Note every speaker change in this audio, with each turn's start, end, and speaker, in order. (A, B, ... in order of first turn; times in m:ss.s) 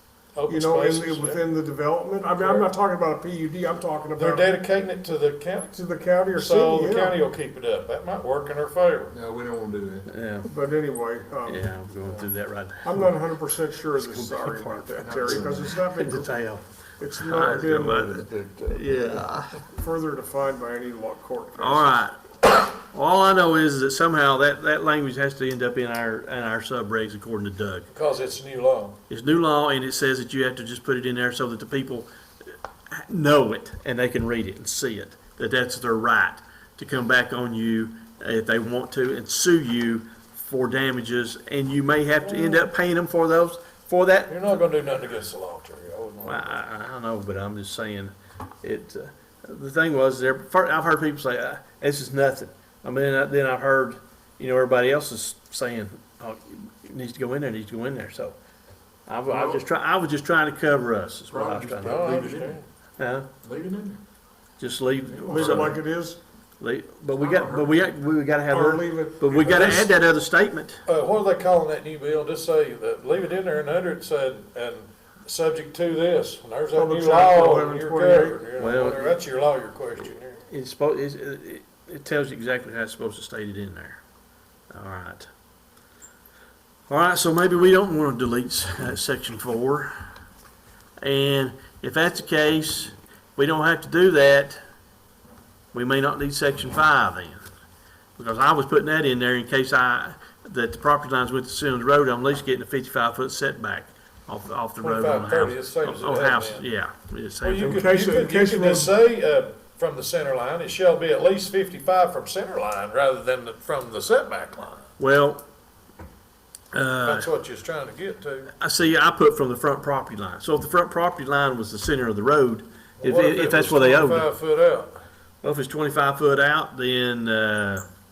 0:00.4-0:01.4 A
0:00.5-0:04.6 B
0:02.4-0:02.7 A
0:04.2-0:05.8 A
0:05.7-0:07.2 B
0:06.3-0:09.2 A
0:09.1-0:10.1 C
0:10.1-0:10.5 D
0:10.5-0:11.7 B
0:11.4-0:13.2 D
0:12.8-0:18.8 B
0:14.0-0:15.1 D
0:15.0-0:15.8 C
0:15.8-0:19.6 D
0:19.7-0:22.0 B
0:21.6-0:27.9 D
0:27.9-0:29.0 A
0:29.1-0:32.1 D
0:32.9-0:44.6 D
0:42.2-0:42.7 A
0:44.3-0:46.6 A
0:46.2-0:58.4 D
0:59.1-1:02.3 D
1:01.3-1:02.6 C
1:01.8-1:02.7 A
1:03.0-1:03.3 D
1:03.4-1:04.0 C
1:04.6-1:05.8 D
1:05.1-1:05.5 C
1:05.2-1:06.2 B
1:06.6-1:10.8 D
1:07.2-1:07.7 C
1:08.5-1:09.9 B
1:10.9-1:20.4 A
1:16.7-1:18.5 B
1:18.6-1:19.2 D
1:20.4-1:24.0 D
1:24.7-1:25.3 D
1:26.9-1:30.1 D
1:31.0-1:34.6 D
1:35.7-1:37.4 D
1:38.2-1:47.7 D
1:44.8-1:46.7 A
1:47.4-1:54.9 A
1:47.6-1:48.9 B
1:55.0-1:55.4 D
1:56.7-1:57.3 D
1:57.0-1:58.5 A
1:58.6-2:04.3 D
2:03.0-2:05.0 A
2:05.4-2:07.9 D